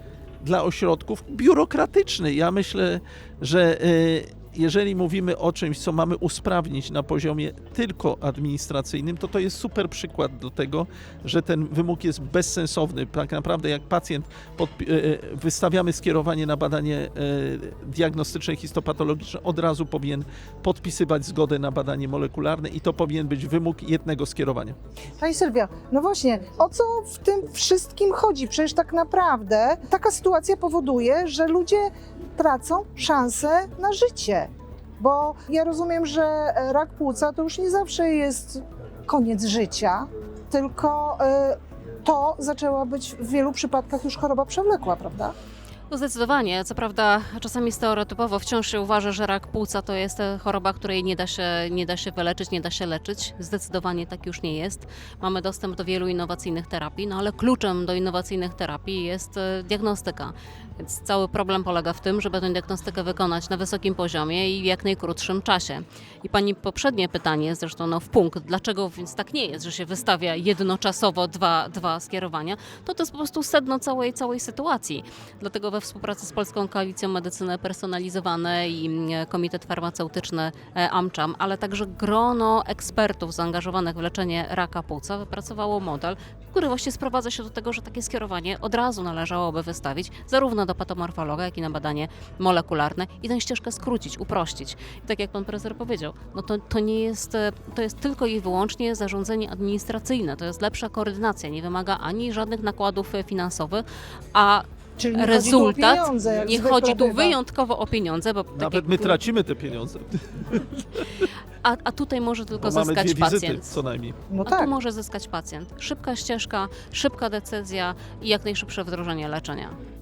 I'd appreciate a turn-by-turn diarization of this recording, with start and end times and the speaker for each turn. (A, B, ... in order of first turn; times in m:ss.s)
0:00.4-0:24.8 A
0:25.2-0:45.3 B
0:45.9-1:49.2 C
1:45.0-1:47.4 B
1:48.5-1:51.2 A
1:51.6-1:53.8 C
1:52.6-1:54.2 A
1:54.3-1:54.7 B
1:54.4-1:59.8 C